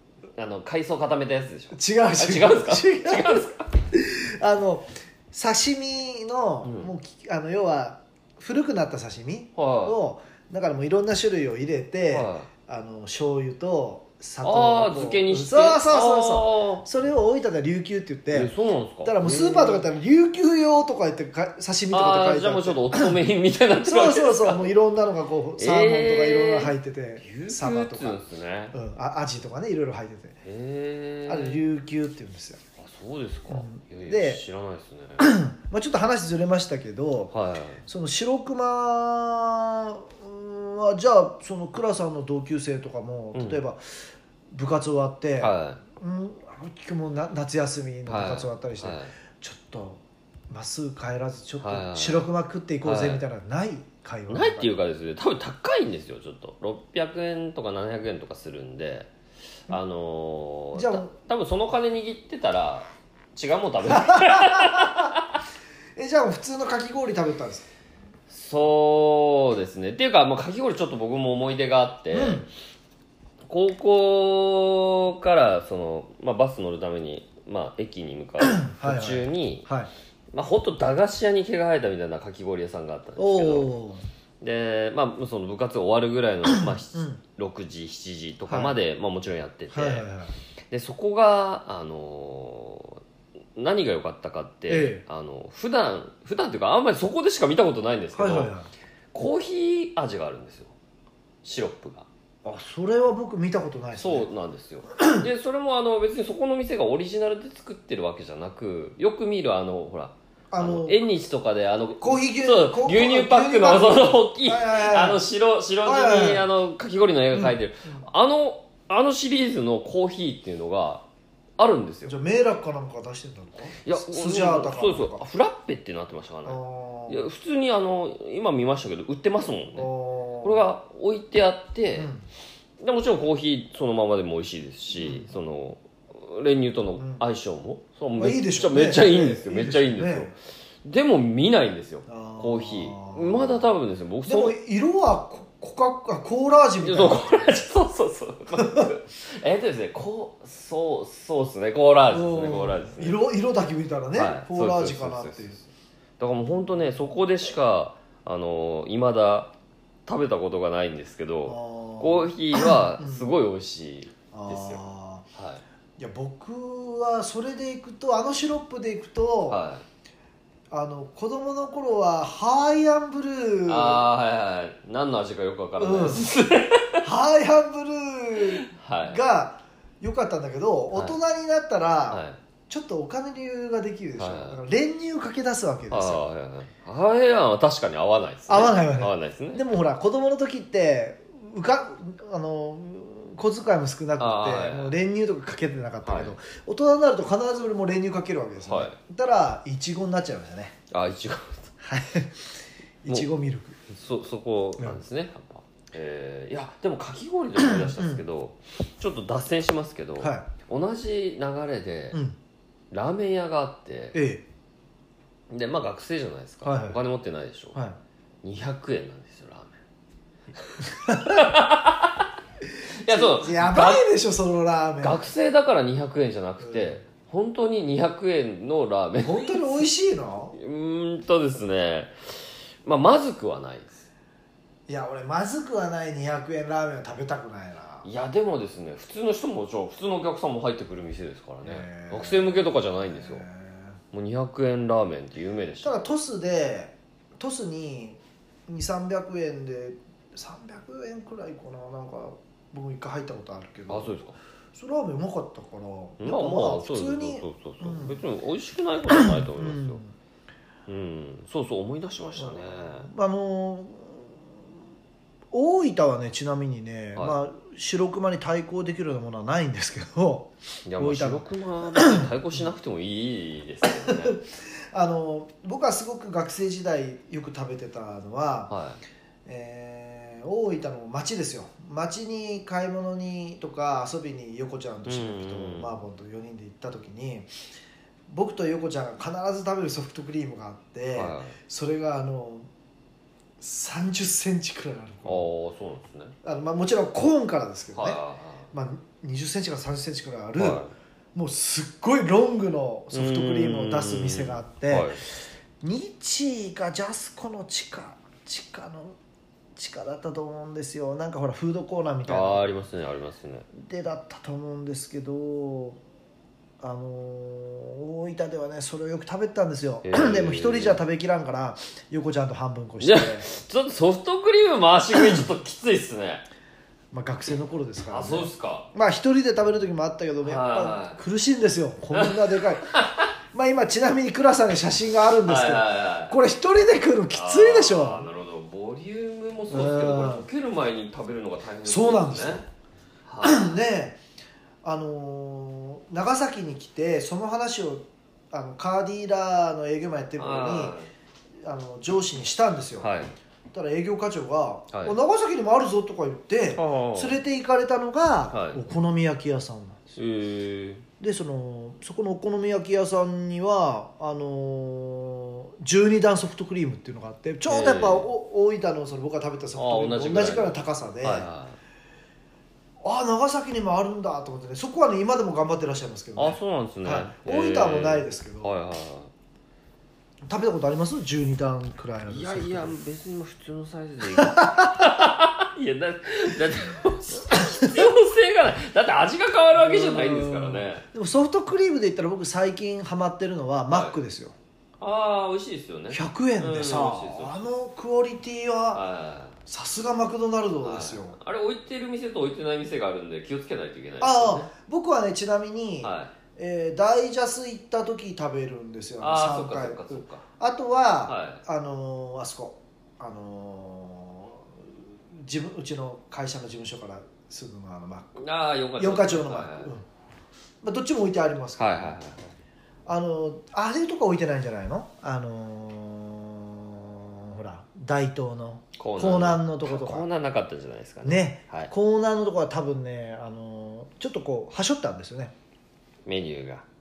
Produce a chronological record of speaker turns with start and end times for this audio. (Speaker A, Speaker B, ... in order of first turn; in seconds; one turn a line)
Speaker A: 0.3-3.7
Speaker B: 1.7-18.5
Speaker A: 6.6-6.9
Speaker A: 9.6-9.9
Speaker A: 12.1-12.5
Speaker A: 14.4-16.9
Speaker A: 18.3-19.9
Speaker B: 19.0-23.1
Speaker A: 21.9-24.7
Speaker B: 23.8-28.2
Speaker A: 25.6-28.7
Speaker B: 28.7-30.4
Speaker A: 30.4-31.6
Speaker B: 31.3-32.6
Speaker A: 32.8-35.3
Speaker B: 33.5-34.4
Speaker B: 35.2-37.3
Speaker A: 37.3-37.8
Speaker B: 37.9-54.7
Speaker A: 43.3-43.6
Speaker A: 45.4-45.8
Speaker A: 48.1-49.1
Speaker A: 51.6-52.3
Speaker A: 52.8-53.2
Speaker A: 54.3-59.1
Speaker A: 59.7-65.4
Speaker B: 60.7-61.1
Speaker B: 63.9-65.1
Speaker B: 66.0-67.7
Speaker A: 68.3-72.5
Speaker B: 72.1-72.5
Speaker A: 73.5-79.7
Speaker B: 78.4-79.9
Speaker A: 80.3-83.7
Speaker B: 83.2-84.0
Speaker A: 84.4-90.1
Speaker B: 86.9-87.2
Speaker B: 88.5-88.8
Speaker B: 89.7-90.3
Speaker A: 90.7-93.0
Speaker A: 93.5-98.5
Speaker B: 94.7-95.0
Speaker B: 98.1-98.7
Speaker A: 99.1-100.7
Speaker A: 101.4-102.1
Speaker B: 102.4-104.3
Speaker A: 103.9-121.0
Speaker B: 105.0-105.2
Speaker B: 110.5-111.0
Speaker B: 112.0-115.2
Speaker B: 115.8-116.5
Speaker B: 117.3-118.0
Speaker A: 121.6-122.2
Speaker B: 122.0-125.2
Speaker A: 123.8-129.9
Speaker B: 126.5-127.2
Speaker B: 129.7-130.6
Speaker A: 130.4-132.1
Speaker B: 131.9-132.2
Speaker A: 132.8-144.6
Speaker B: 135.0-135.3
Speaker B: 137.0-137.2
Speaker B: 138.2-140.3
Speaker B: 142.1-143.7
Speaker B: 144.2-147.6
Speaker A: 146.8-153.2
Speaker B: 148.6-148.9
Speaker B: 152.1-155.6
Speaker A: 154.2-155.6
Speaker A: 156.2-159.5
Speaker A: 160.1-164.8
Speaker B: 161.5-163.3
Speaker B: 164.3-165.2
Speaker A: 165.3-165.6
Speaker B: 166.0-169.6
Speaker A: 169.5-169.8
Speaker B: 170.7-174.0
Speaker A: 173.7-177.0
Speaker B: 175.8-176.3
Speaker B: 177.0-186.2
Speaker A: 178.7-179.2
Speaker A: 182.1-182.4
Speaker A: 184.2-184.6
Speaker A: 185.9-189.6
Speaker B: 188.5-200.8
Speaker A: 194.2-194.9
Speaker A: 196.0-196.3
Speaker A: 198.6-199.0
Speaker A: 200.9-201.7
Speaker B: 201.8-203.8
Speaker A: 203.9-212.2
Speaker B: 207.6-208.2
Speaker B: 210.2-210.5
Speaker B: 212.1-212.4
Speaker A: 212.9-214.2
Speaker B: 214.1-214.4
Speaker A: 215.5-217.8
Speaker B: 216.6-217.0
Speaker A: 218.4-219.8
Speaker B: 221.0-221.5
Speaker A: 221.1-222.3
Speaker A: 222.9-224.0
Speaker B: 223.1-225.2
Speaker A: 225.0-229.8
Speaker B: 226.6-226.9
Speaker B: 229.2-230.6
Speaker A: 230.5-234.1
Speaker B: 234.9-238.1
Speaker A: 238.0-243.4
Speaker B: 241.6-244.0
Speaker A: 244.1-245.9
Speaker B: 245.8-258.2
Speaker A: 253.9-254.3
Speaker A: 256.2-260.0
Speaker B: 259.1-260.1
Speaker A: 260.9-263.1
Speaker B: 262.4-264.4
Speaker B: 265.5-272.3
Speaker A: 270.9-274.4
Speaker B: 273.8-278.7
Speaker A: 278.7-279.0
Speaker B: 279.4-287.5
Speaker A: 285.1-285.9
Speaker B: 288.3-292.7
Speaker A: 291.1-291.6
Speaker B: 293.6-295.5
Speaker A: 295.2-296.3
Speaker B: 296.4-298.2
Speaker A: 297.9-298.7
Speaker B: 298.7-300.8
Speaker A: 300.6-300.9
Speaker B: 301.3-309.2
Speaker A: 303.1-305.2
Speaker B: 309.8-312.7
Speaker A: 312.3-313.6
Speaker B: 313.7-316.0
Speaker B: 316.8-323.5
Speaker A: 320.0-321.0
Speaker A: 323.0-326.4
Speaker B: 327.1-332.9
Speaker A: 328.1-328.9
Speaker A: 330.4-331.2
Speaker A: 332.9-333.3
Speaker B: 333.5-338.2
Speaker A: 335.4-336.4
Speaker A: 337.3-342.6
Speaker B: 339.7-340.5
Speaker B: 341.8-342.6
Speaker A: 343.2-343.7
Speaker B: 343.4-344.2
Speaker B: 344.8-351.0
Speaker A: 350.4-351.1
Speaker B: 351.6-353.1
Speaker A: 353.0-353.3
Speaker B: 353.7-360.0
Speaker A: 354.9-355.1
Speaker A: 356.7-357.4
Speaker A: 358.5-358.8
Speaker A: 360.1-361.1
Speaker B: 361.2-371.5
Speaker A: 367.7-368.3
Speaker A: 369.8-371.8
Speaker B: 373.0-378.7
Speaker A: 376.4-379.3
Speaker B: 380.4-382.9
Speaker A: 382.3-391.0
Speaker B: 384.4-384.9
Speaker B: 387.5-387.9
Speaker B: 389.8-394.5
Speaker A: 393.9-394.2
Speaker A: 395.0-397.7
Speaker B: 396.1-399.0
Speaker A: 398.9-399.6
Speaker B: 399.6-401.4
Speaker A: 400.8-404.7
Speaker B: 404.2-418.4
Speaker A: 406.0-406.3
Speaker A: 409.2-410.4
Speaker A: 411.3-411.6
Speaker A: 418.4-419.9
Speaker B: 419.0-420.1
Speaker B: 420.8-422.1
Speaker A: 421.8-422.4
Speaker B: 423.1-430.3
Speaker A: 429.0-431.9
Speaker B: 431.2-435.5
Speaker A: 436.2-436.8